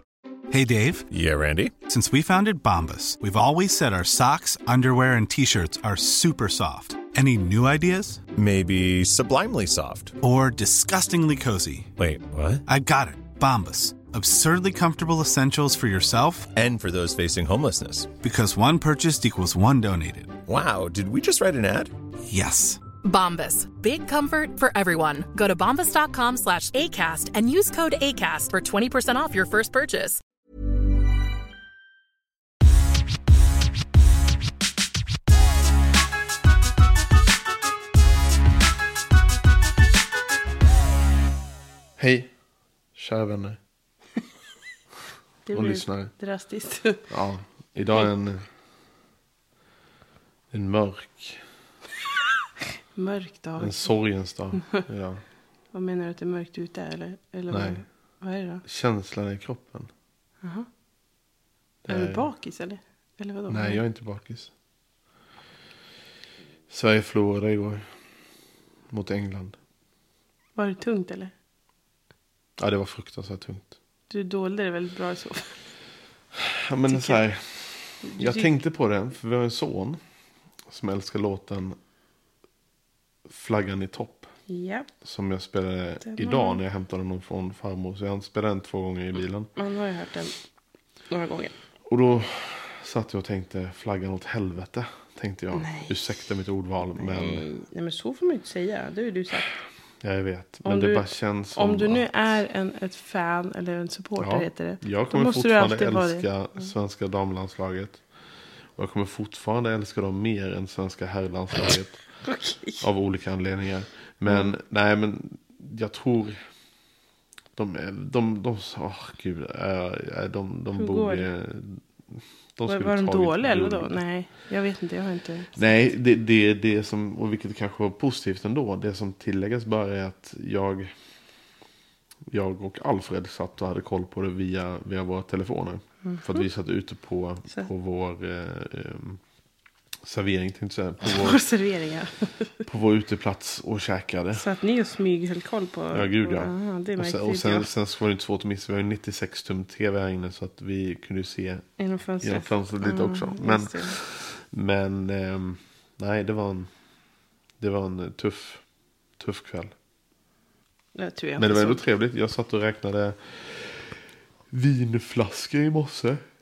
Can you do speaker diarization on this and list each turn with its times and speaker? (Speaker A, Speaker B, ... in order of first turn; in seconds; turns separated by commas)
Speaker A: 0.5-1.1, Speaker B: 1.1-1.8, Speaker A: 1.8-8.2, Speaker B: 8.4-10.2, Speaker A: 10.2-11.9, Speaker B: 12.0-12.6, Speaker A: 12.7-16.5, Speaker B: 16.5-18.2, Speaker A: 18.2-20.4, Speaker B: 20.5-21.9, Speaker A: 22.3-22.8, Speaker C: 23.0-30.2, Speaker D: 42.0-42.3, Speaker D: 43.0-43.6, Speaker E: 45.5-47.0, Speaker D: 45.5-46.1, Speaker D: 47.1-48.5, Speaker D: 50.5-51.4, Speaker E: 53.0-53.9, Speaker D: 53.6-55.2, Speaker E: 54.5-54.8, Speaker E: 55.7-58.6, Speaker D: 57.5-57.8, Speaker D: 58.6-59.9, Speaker D: 61.9-62.3, Speaker E: 61.9-63.8, Speaker D: 63.5-64.5, Speaker D: 66.7-67.8, Speaker D: 68.9-69.6, Speaker E: 70.6-71.3, Speaker D: 72.6-73.8, Speaker E: 74.1-75.5, Speaker D: 76.3-80.0, Speaker E: 76.9-77.2, Speaker E: 78.0-78.5, Speaker D: 80.7-81.8, Speaker D: 83.3-84.3, Speaker E: 84.5-84.9, Speaker D: 85.0-89.5, Speaker E: 86.0-86.6, Speaker E: 89.6-90.3, Speaker E: 91.1-91.5, Speaker D: 91.9-97.5, Speaker E: 95.5-96.1, Speaker E: 97.0-99.6, Speaker D: 100.0-102.1, Speaker E: 100.6-106.3, Speaker D: 104.2-108.0, Speaker D: 108.8-112.0, Speaker E: 112.2-112.8, Speaker D: 112.8-116.4, Speaker E: 114.3-114.5, Speaker D: 117.6-124.0, Speaker E: 120.7-121.3, Speaker E: 122.7-125.7, Speaker D: 125.6-130.9, Speaker D: 132.3-139.2, Speaker E: 136.1-136.5, Speaker D: 140.0-141.4, Speaker E: 141.0-142.6, Speaker D: 142.7-144.4, Speaker E: 144.3-147.7, Speaker D: 145.9-151.7, Speaker E: 151.8-154.0, Speaker D: 152.2-156.7, Speaker D: 157.6-158.6, Speaker D: 159.2-159.7, Speaker E: 160.9-161.8, Speaker D: 161.4-166.2